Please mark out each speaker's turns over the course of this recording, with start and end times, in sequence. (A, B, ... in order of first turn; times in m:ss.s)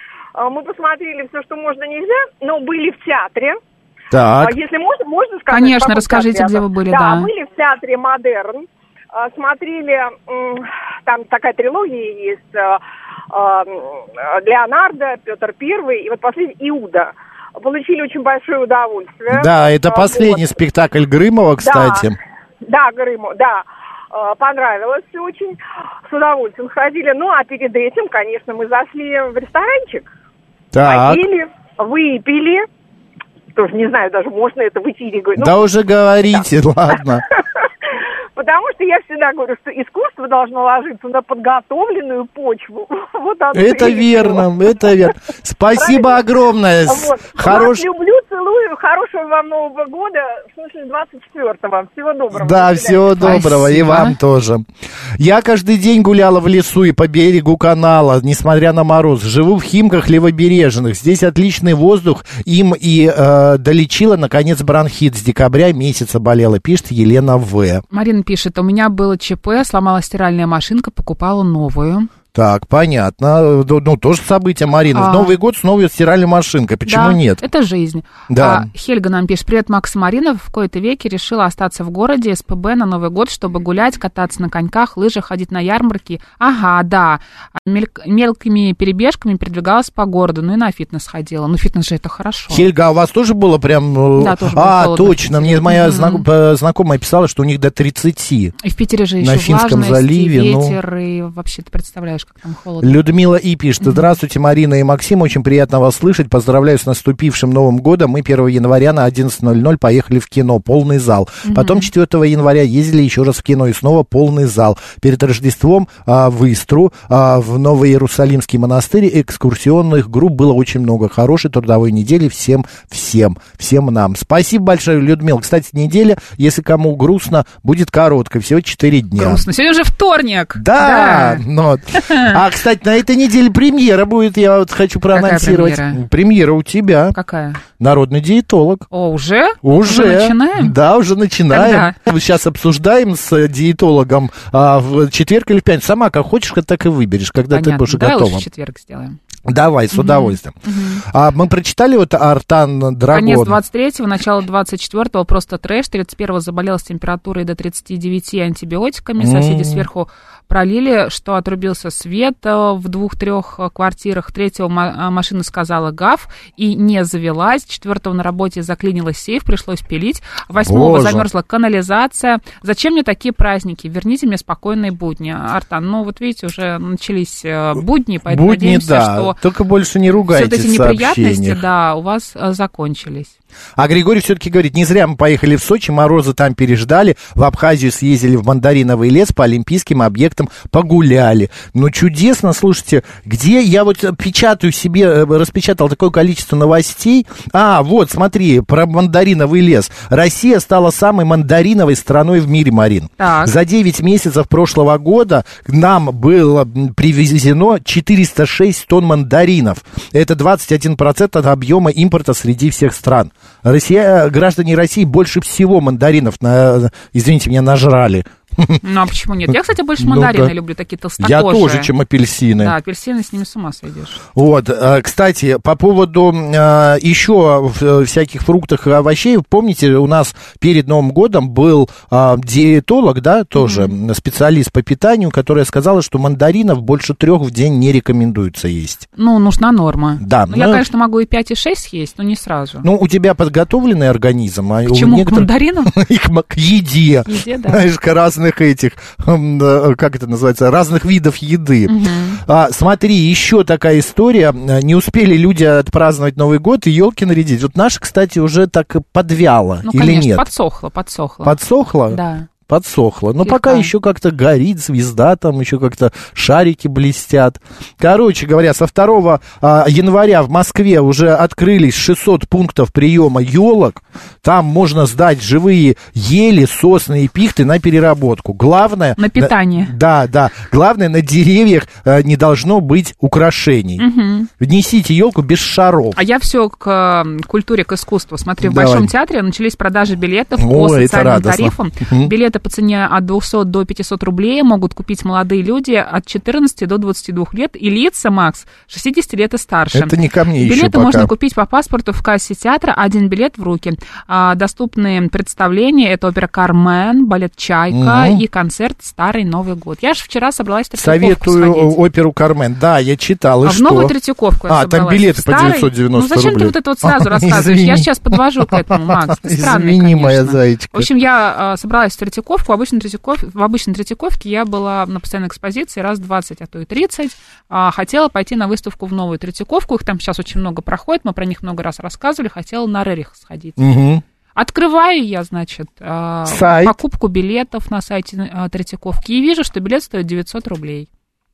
0:00.4-0:03.6 A
0:04.1-0:04.6 B
0:04.4-0:12.8 A
0:05.5-0:07.3 C
0:13.3-0:20.5 A
0:19.3-0:22.1 B
0:21.6-0:22.0 A
0:22.6-0:30.1 A
0:30.7-0:31.2 B
0:30.8-0:32.6 A
0:33.5-0:35.6 A
0:35.4-0:37.2 B
0:38.4-0:44.4 A
0:43.5-0:47.8 B
0:45.7-0:46.2 A
0:46.9-0:53.4 A
0:52.3-0:54.6 B
0:53.2-0:54.2 C
0:55.2-1:07.8 B
1:07.9-1:12.1 C
1:12.3-1:17.4 B
1:14.9-1:15.4 C
1:16.8-1:32.6 C
1:18.3-1:18.7 B
1:32.5-1:38.5 B
1:34.2-1:36.2 C
1:38.6-1:43.0 C
1:39.2-1:40.8 B
1:42.8-2:09.4 B
1:43.8-1:44.1 C
1:51.4-1:51.9 C
2:09.2-2:11.4 C
2:10.5-2:17.2 B
2:12.0-2:12.3 C
2:15.1-2:16.0 C
2:17.1-2:17.6 C
2:17.8-2:18.8 B
2:18.9-2:20.7 C
2:19.6-2:28.4 B
2:21.5-2:22.0 C
2:27.5-2:29.2 C
2:29.5-2:33.6 B
2:29.9-2:31.0 C
2:33.1-2:59.4 C
2:39.2-2:39.9 B
2:50.6-2:51.2 B
2:58.2-3:01.6 B
3:00.3-3:03.3 C
3:03.8-3:38.8 B
3:23.2-3:23.5 C
3:38.8-3:41.9 C
3:40.0-3:40.5 B
3:41.2-3:42.7 B
3:42.6-3:44.2 C
3:44.3-3:59.1 B
3:53.6-3:53.9 C
3:59.2-4:02.8 C
4:00.2-4:00.8 B
4:02.8-4:11.9 B
4:04.9-4:05.9 C
4:07.2-4:07.8 C
4:11.9-4:12.4 C
4:12.4-4:20.5 B
4:19.8-4:21.6 C
4:21.4-4:44.0 B
4:22.1-4:22.5 C
4:23.4-4:23.9 C
4:39.2-4:39.9 C
4:44.0-4:44.5 C
4:44.6-4:46.2 B
4:46.1-5:12.0 C
4:48.6-4:49.1 B
4:50.6-4:52.3 B
4:59.9-5:01.3 B
5:07.9-5:08.4 B
5:11.0-5:14.1 B
5:13.6-5:33.8 C
5:14.7-5:21.1 B
5:33.8-5:34.2 B
5:34.6-5:41.1 C
5:36.5-5:37.0 B